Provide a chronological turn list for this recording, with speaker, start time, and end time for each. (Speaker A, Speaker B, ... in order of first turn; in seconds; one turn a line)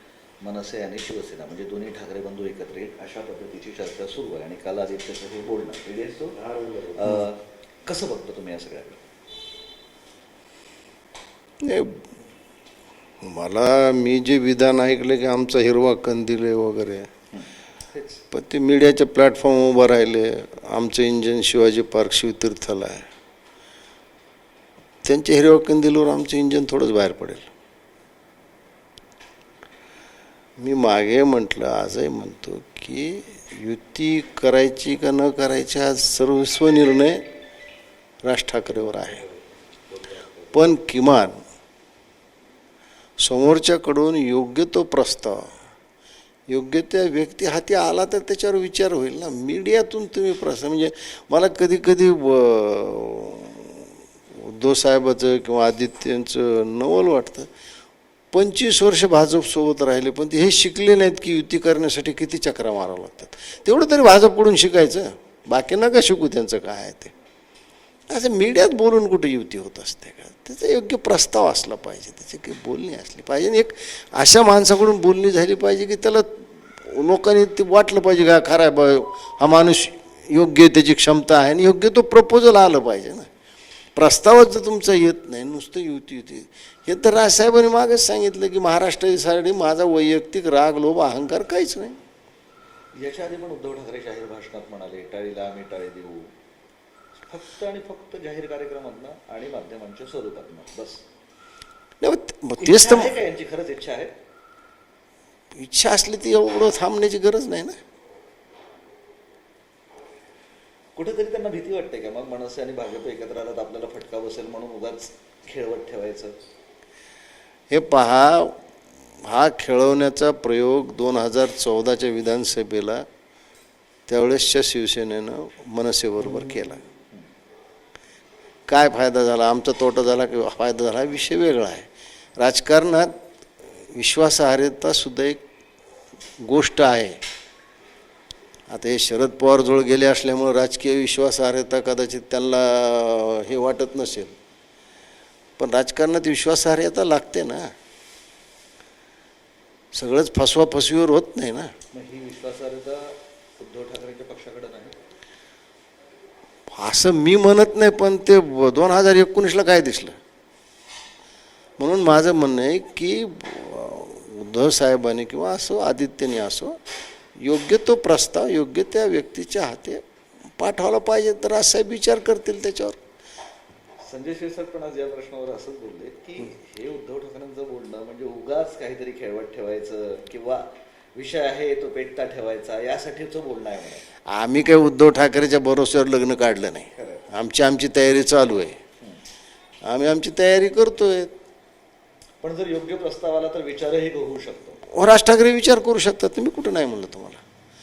Speaker A: 0.4-9.0
Speaker B: 11.6-12.1
Speaker B: 13.2-17.1
Speaker A: 17.4-18.2
Speaker B: 18.3-23.1
Speaker B: 25.0-27.5
Speaker B: 30.6-37.2
Speaker B: 38.2-39.3
Speaker A: 40.0-40.2
Speaker B: 40.5-41.4
Speaker B: 43.2-45.5
Speaker B: 46.5-57.5
Speaker B: 58.3-67.1
Speaker B: 68.1-83.3
Speaker B: 84.0-92.0
Speaker A: 92.9-96.3
Speaker A: 97.2-101.0
Speaker B: 102.0-103.2
Speaker A: 102.6-104.1
Speaker B: 105.5-107.8
Speaker A: 111.0-116.4
Speaker B: 117.7-118.6
Speaker B: 119.2-123.0
Speaker B: 124.1-126.8
Speaker B: 128.7-133.1
Speaker B: 133.9-135.4
Speaker B: 136.4-137.2
Speaker B: 138.7-144.3
Speaker B: 145.6-147.7
Speaker B: 149.9-151.7
Speaker A: 151.9-155.0
Speaker B: 156.8-160.2
Speaker B: 161.8-166.8
Speaker B: 167.4-170.0
Speaker B: 170.6-173.0
Speaker A: 174.0-184.1
Speaker B: 184.3-188.8
Speaker A: 186.9-187.3
Speaker B: 189.8-191.3
Speaker A: 192.4-194.8
Speaker B: 194.9-197.4